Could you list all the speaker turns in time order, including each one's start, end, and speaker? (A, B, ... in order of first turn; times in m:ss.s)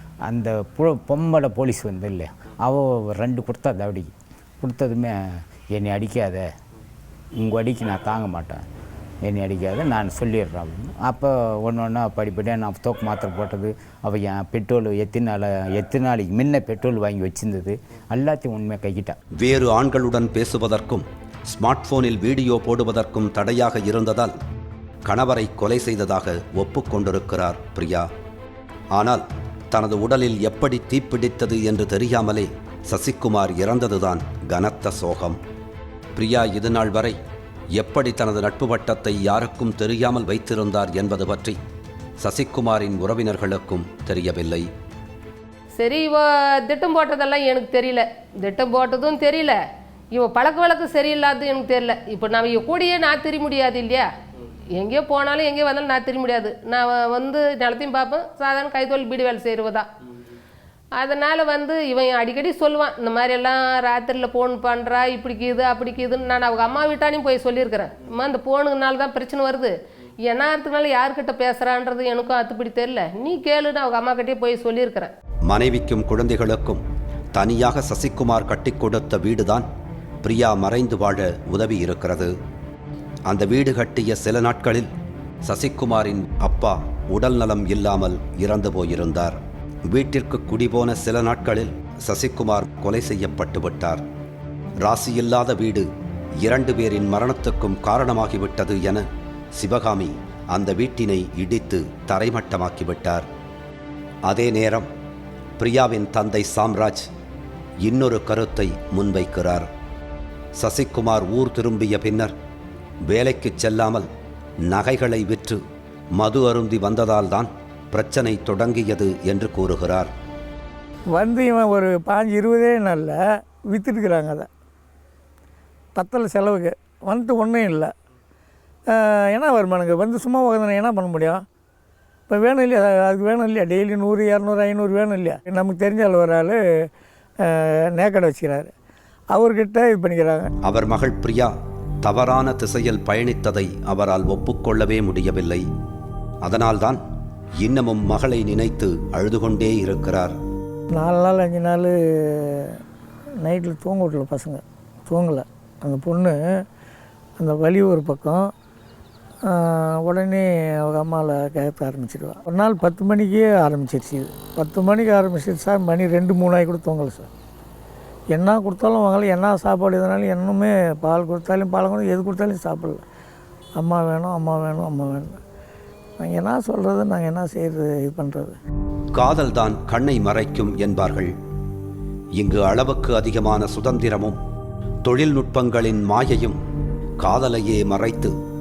0:00.2-0:06.5 A
0:07.4-0:08.6 A
0:09.2-0:19.2 A
0:19.4-0:24.4 B
0:25.0-0:28.1 B
0:29.0-0:35.4 B
0:36.2-0:37.2 B
0:37.8-0:41.6 B
0:42.2-0:44.7 B
0:45.8-0:49.6 C
0:50.1-0:54.1 C
0:54.8-0:59.9 C
1:01.0-1:15.1 C
1:15.5-1:16.8 B
1:17.3-1:19.7 B
1:20.2-1:22.3 B
1:23.3-1:24.9 B
1:25.4-1:29.4 B
1:29.9-1:34.0 B
1:34.8-1:35.9 B
1:36.4-1:39.0 B
1:39.6-1:43.3 B
1:44.3-1:44.9 B
1:45.6-1:47.1 B
1:47.8-1:49.7 B
1:50.6-1:52.3 B
1:53.1-1:54.1 B
1:54.7-1:55.6 B
1:56.2-2:00.1 B
2:01.2-2:03.2 D
2:03.7-2:04.5 D
2:06.0-2:07.9 D
2:08.9-2:11.4 D
2:12.3-2:16.6 D
2:17.5-2:18.7 D
2:19.3-2:20.5 D
2:20.6-2:21.5 B
2:22.0-2:25.6 B
2:26.4-2:27.0 B
2:27.6-2:30.4 B
2:30.9-2:32.8 D
2:33.4-2:36.4 D
2:37.4-2:38.5 D
2:39.5-2:47.3 D
2:48.3-2:53.0 D
2:53.8-2:55.4 D
2:56.2-2:58.6 D
2:59.2-3:01.3 B
3:02.4-3:04.4 B
3:05.0-3:06.6 B
3:07.2-3:08.4 B